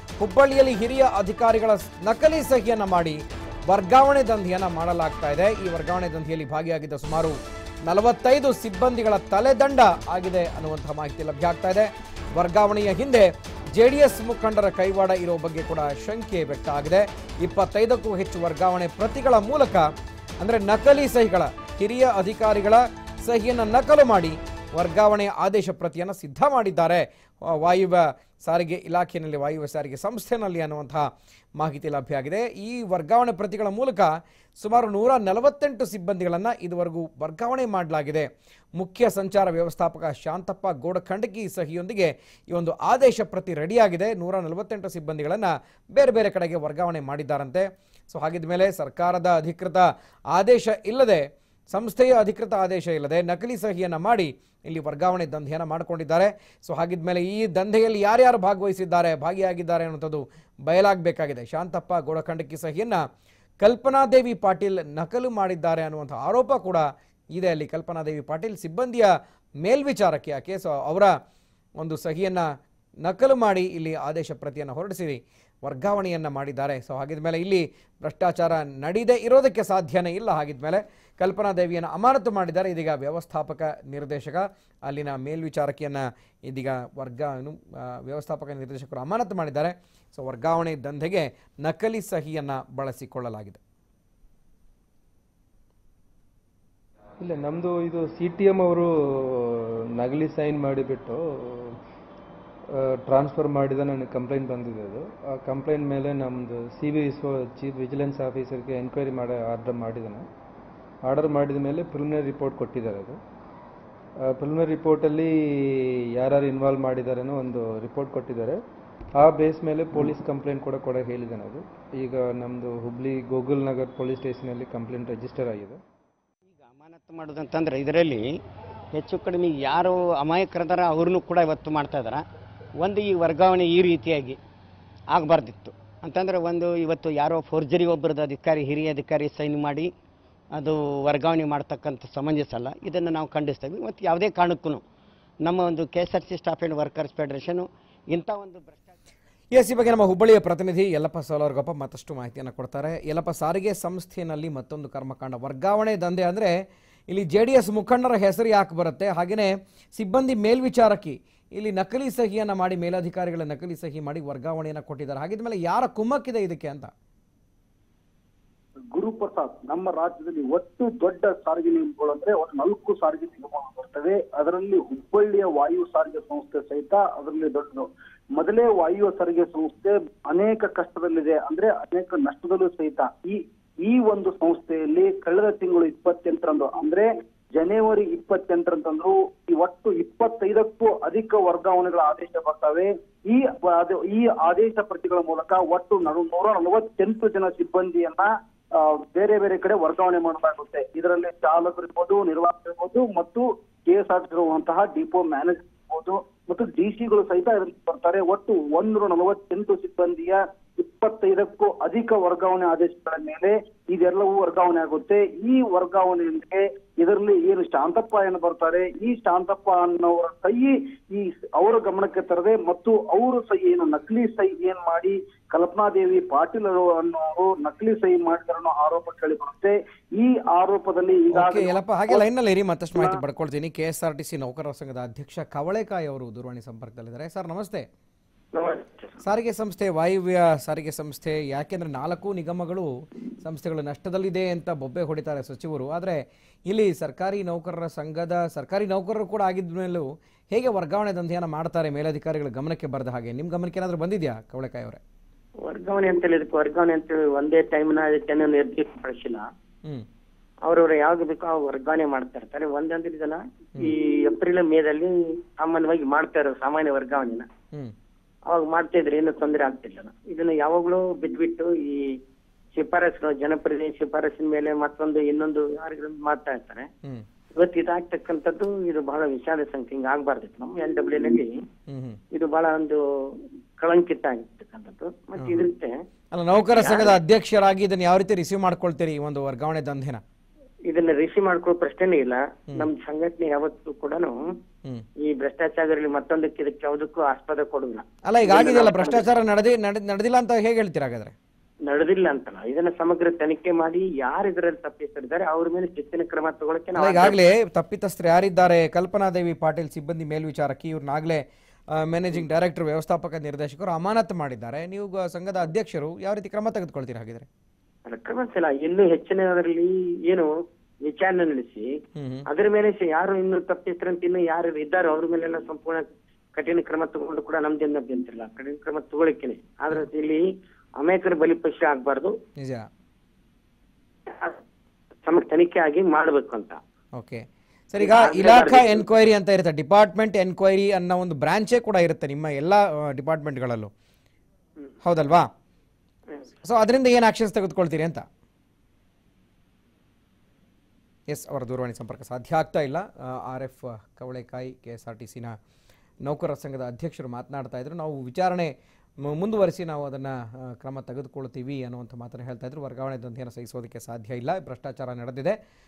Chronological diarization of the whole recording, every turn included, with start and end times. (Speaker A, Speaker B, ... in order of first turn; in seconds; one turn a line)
Speaker A: 0.2-7.4
Speaker A: 7.9-31.1
Speaker A: 31.6-34.1
Speaker A: 34.6-63.0
Speaker A: 63.6-66.8
Speaker A: 67.4-69.1
Speaker A: 69.6-71.1
Speaker A: 71.8-72.4
Speaker A: 73.0-93.6
Speaker B: 97.2-101.8
Speaker B: 102.7-110.3
Speaker B: 111.0-113.2
Speaker B: 114.2-118.6
Speaker B: 119.1-125.8
Speaker C: 126.5-128.3
Speaker C: 128.9-132.2
Speaker C: 132.8-134.4
Speaker C: 135.1-139.9
Speaker C: 140.6-144.8
Speaker C: 145.4-149.0
Speaker A: 149.5-156.5
Speaker A: 157.1-166.9
Speaker D: 168.9-232.2
Speaker A: 231.3-237.8
Speaker E: 238.5-239.2
Speaker A: 239.2-242.9
Speaker A: 243.4-255.0
Speaker E: 255.7-259.4
Speaker E: 260.6-267.5
Speaker E: 268.5-272.1
Speaker E: 272.7-276.9
Speaker E: 277.5-281.5
Speaker A: 281.9-282.2
Speaker E: 282.3-283.0
Speaker E: 283.8-285.9
Speaker A: 285.4-285.6
Speaker A: 286.3-290.2
Speaker E: 286.7-287.2
Speaker E: 290.9-294.4
Speaker E: 295.2-299.3
Speaker A: 298.2-301.3
Speaker E: 301.9-307.4
Speaker A: 307.0-311.4
Speaker A: 311.9-317.4
Speaker E: 318.1-320.5
Speaker E: 321.0-321.9
Speaker A: 322.1-322.4
Speaker E: 322.5-330.4
Speaker E: 331.0-332.3
Speaker A: 332.6-332.9
Speaker E: 335.2-336.8
Speaker A: 337.2-343.9
Speaker E: 338.0-339.1
Speaker A: 345.0-345.5
Speaker A: 346.6-348.2
Speaker A: 351.3-355.5
Speaker A: 356.2-358.7
Speaker A: 359.2-365.5